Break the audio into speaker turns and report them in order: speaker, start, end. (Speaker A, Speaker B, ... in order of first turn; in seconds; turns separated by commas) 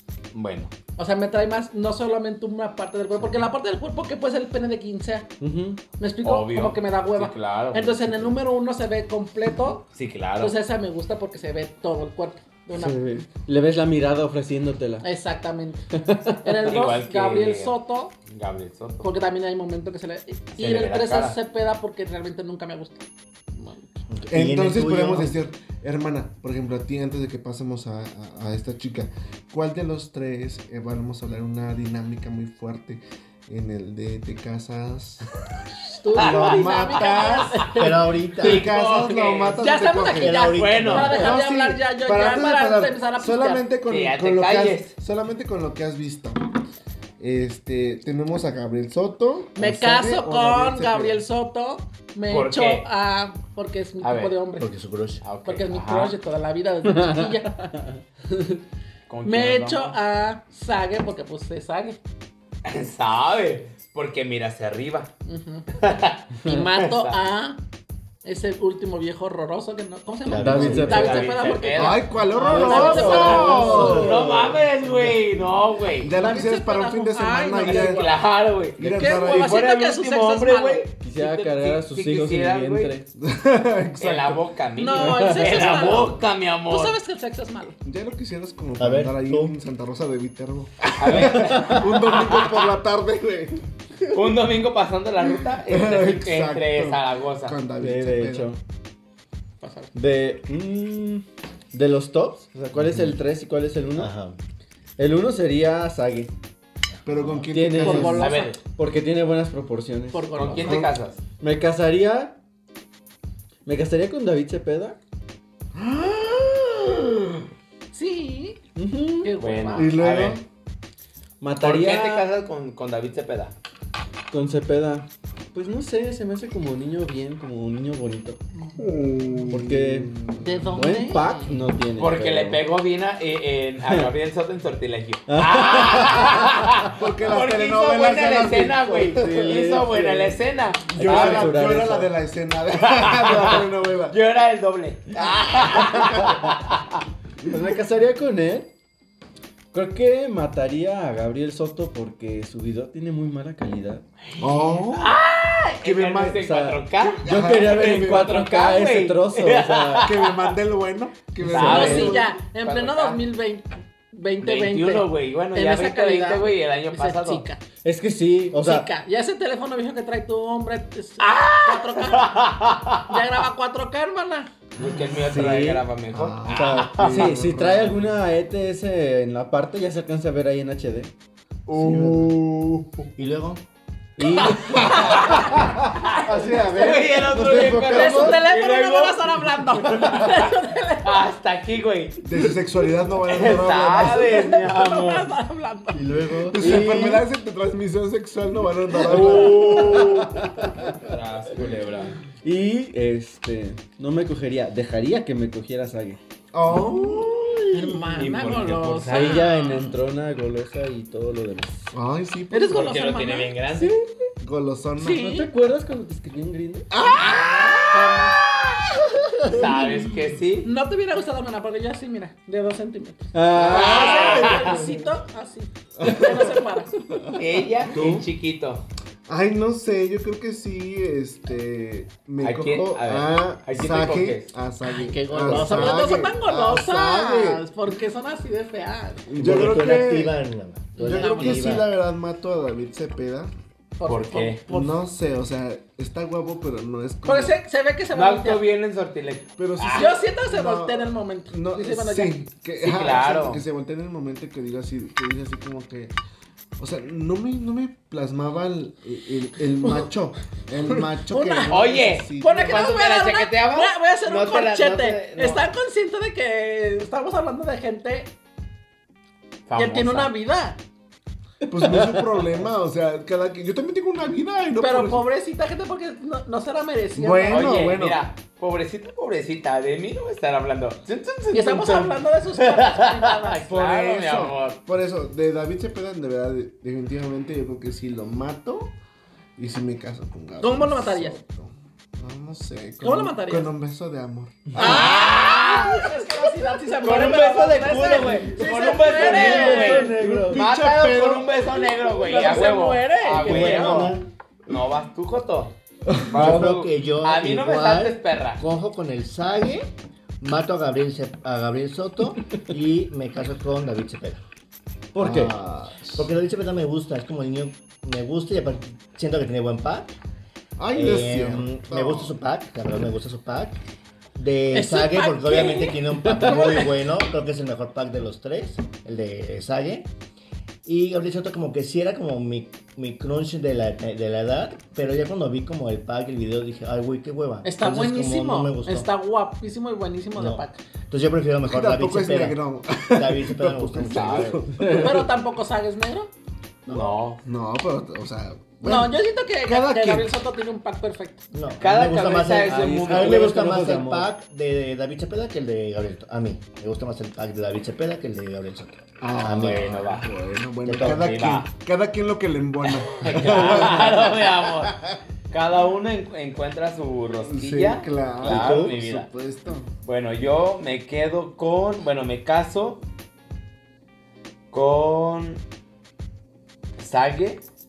Speaker A: 0.3-0.7, Speaker B: 0.9-5.3, Speaker C: 5.4-5.8, Speaker B: 6.0-9.9, Speaker A: 6.2-8.3, Speaker A: 9.9-10.6, Speaker B: 10.4-13.1, Speaker C: 12.7-15.1, Speaker B: 15.0-15.9, Speaker C: 15.9-16.6, Speaker B: 16.4-18.1, Speaker A: 16.6-19.1, Speaker B: 19.0-24.1, Speaker A: 20.6-21.4, Speaker D: 24.1-25.4, Speaker E: 24.3-35.3, Speaker B: 36.0-38.1, Speaker A: 36.1-37.7, Speaker E: 36.1-37.7, Speaker D: 37.7-38.7, Speaker A: 38.4-39.6, Speaker E: 38.4-46.5, Speaker B: 39.6-43.6, Speaker D: 40.1-41.2, Speaker A: 40.5-41.3, Speaker A: 43.9-44.9, Speaker E: 47.2-51.2, Speaker B: 49.5-54.7, Speaker A: 52.3-52.8, Speaker A: 54.0-54.4, Speaker D: 54.6-55.2, Speaker A: 55.2-56.1, Speaker B: 55.4-57.6, Speaker C: 56.8-58.6, Speaker A: 59.1-60.0, Speaker B: 59.2-62.0, Speaker A: 62.6-65.1, Speaker B: 65.2-65.7, Speaker A: 65.7-67.2, Speaker B: 66.4-67.6, Speaker B: 68.2-74.0, Speaker D: 70.2-71.2, Speaker C: 70.3-71.4, Speaker A: 70.8-76.1, Speaker E: 71.7-75.1, Speaker C: 72.4-74.5, Speaker E: 76.0-78.1, Speaker B: 76.1-78.2, Speaker A: 77.6-82.9, Speaker E: 78.8-79.5, Speaker B: 78.8-80.8, Speaker C: 81.0-83.1, Speaker E: 83.2-84.4, Speaker A: 84.0-87.0, Speaker B: 84.8-87.8, Speaker C: 84.9-86.0, Speaker E: 87.8-93.6, Speaker D: 88.8-89.5, Speaker A: 91.0-92.7, Speaker A: 94.1-97.6, Speaker E: 95.4-98.5, Speaker C: 97.8-98.6, Speaker B: 99.6-99.9, Speaker C: 99.9-104.1, Speaker D: 102.7-103.2, Speaker D: 104.0-104.4, Speaker C: 105.0-106.3, Speaker D: 107.0-107.5, Speaker E: 107.0-108.3, Speaker C: 107.5-110.4, Speaker B: 107.8-108.6, Speaker A: 108.1-108.6, Speaker B: 110.1-110.8, Speaker A: 110.3-111.2, Speaker E: 110.6-111.0, Speaker C: 111.4-112.4, Speaker C: 113.7-115.0, Speaker E: 115.7-117.4, Speaker B: 117.9-118.6, Speaker C: 118.7-119.3, Speaker B: 119.2-120.0, Speaker A: 119.4-120.4, Speaker E: 119.7-120.4, Speaker C: 121.4-122.2, Speaker A: 121.6-123.5, Speaker C: 124.3-128.4, Speaker E: 128.8-130.7, Speaker C: 129.5-130.1, Speaker B: 130.4-131.6, Speaker C: 130.7-132.6, Speaker A: 132.0-141.6, Speaker C: 135.3-136.9, Speaker E: 136.9-139.8, Speaker C: 139.2-140.4, Speaker C: 140.9-142.1, Speaker E: 140.9-144.2, Speaker A: 142.8-147.0, Speaker E: 145.4-146.3, Speaker C: 147.4-148.7, Speaker C: 149.7-154.0, Speaker A: 154.3-160.6, Speaker E: 154.4-155.2, Speaker E: 155.8-156.4, Speaker C: 156.4-160.1, Speaker E: 157.2-158.3, Speaker E: 160.0-162.3, Speaker C: 161.4-162.2, Speaker A: 161.4-163.2, Speaker B: 161.6-167.6, Speaker A: 164.4-167.4, Speaker C: 167.8-168.9, Speaker B: 168.5-172.5, Speaker A: 171.2-173.2, Speaker B: 173.1-174.5, Speaker A: 174.8-177.4, Speaker E: 174.8-178.1, Speaker C: 176.7-181.1, Speaker A: 181.7-182.6, Speaker E: 181.7-182.4, Speaker D: 183.2-183.6, Speaker C: 184.2-185.5, Speaker A: 184.4-192.4, Speaker E: 184.4-188.4, Speaker B: 184.7-185.6, Speaker C: 186.2-188.1, Speaker B: 187.8-191.3, Speaker E: 192.2-194.5, Speaker A: 193.2-195.3, Speaker B: 194.0-196.2, Speaker C: 196.0-197.2, Speaker D: 196.1-196.9, Speaker E: 196.5-200.2, Speaker A: 199.0-202.2, Speaker C: 199.2-201.1, Speaker C: 202.4-206.2, Speaker E: 206.5-208.1, Speaker C: 206.7-207.0, Speaker B: 207.7-209.9, Speaker A: 208.2-209.6, Speaker C: 209.1-211.9, Speaker E: 211.9-212.9, Speaker B: 212.5-213.5, Speaker A: 212.7-213.9, Speaker C: 213.7-214.3, Speaker E: 214.4-215.3, Speaker B: 215.0-215.5, Speaker C: 215.2-216.9, Speaker E: 216.9-217.8, Speaker A: 217.1-220.7, Speaker B: 217.8-218.4, Speaker E: 219.5-220.1, Speaker B: 220.6-226.9, Speaker C: 223.3-224.2, Speaker E: 223.5-225.0, Speaker A: 223.6-224.8, Speaker E: 226.0-226.6, Speaker C: 226.1-226.5, Speaker E: 227.1-228.3, Speaker A: 227.3-228.8, Speaker E: 229.3-237.6, Speaker A: 232.4-234.5, Speaker B: 234.8-239.3, Speaker E: 239.3-240.4, Speaker D: 239.4-241.9, Speaker B: 240.9-241.8, Speaker E: 241.0-243.5, Speaker B: 244.0-245.0, Speaker A: 244.0-244.6, Speaker E: 244.7-247.6, Speaker B: 247.2-248.6, Speaker A: 248.1-250.2, Speaker E: 249.6-256.1, Speaker B: 249.9-252.3, Speaker A: 252.8-253.6, Speaker E: 256.8-262.9, Speaker B: 261.3-261.8, Speaker A: 261.7-265.6, Speaker B: 262.4-268.3, Speaker A: 269.7-270.3, Speaker B: 269.7-270.8, Speaker E: 271.7-275.2, Speaker C: 271.7-272.4, Speaker B: 274.8-277.7, Speaker E: 277.1-278.2, Speaker A: 277.5-284.8, Speaker B: 281.5-283.6, Speaker E: 283.7-288.9, Speaker E: 289.6-295.6, Speaker B: 290.6-291.4, Speaker B: 293.0-293.7, Speaker B: 294.7-300.1, Speaker A: 294.8-296.0, Speaker A: 297.0-308.6, Speaker E: 298.1-301.6, Speaker C: 299.5-300.6, Speaker D: 299.7-300.6, Speaker B: 301.7-304.1, Speaker D: 303.2-304.3, Speaker E: 306.1-306.6, Speaker D: 306.3-314.4, Speaker C: 315.1-315.5, Speaker E: 315.2-316.3, Speaker D: 316.1-320.1, Speaker E: 320.8-322.3, Speaker D: 320.9-323.8, Speaker D: 324.4-330.1, Speaker B: 324.7-327.0, Speaker D: 330.8-339.1, Speaker B: 337.6-340.8, Speaker D: 340.3-342.6, Speaker E: 341.7-345.3, Speaker D: 343.1-344.6, Speaker A: 344.0-344.6, Speaker C: 344.8-345.2, Speaker B: 344.9-346.3, Speaker A: 346.9-347.4, Speaker E: 346.9-350.4, Speaker B: 348.8-351.4, Speaker D: 351.5-360.0, Speaker A: 351.8-353.8, Speaker C: 352.7-354.2, Speaker E: 359.2-365.2, Speaker A: 359.6-360.3, Speaker D: 360.8-361.6, Speaker A: 360.9-361.7, Speaker A: 362.8-365.0, Speaker A: 365.5-369.3, Speaker E: 367.4-369.9, Speaker D: 368.4-368.9, Speaker A: 370.0-373.0, Speaker A: 374.7-375.6, Speaker A: 377.0-377.6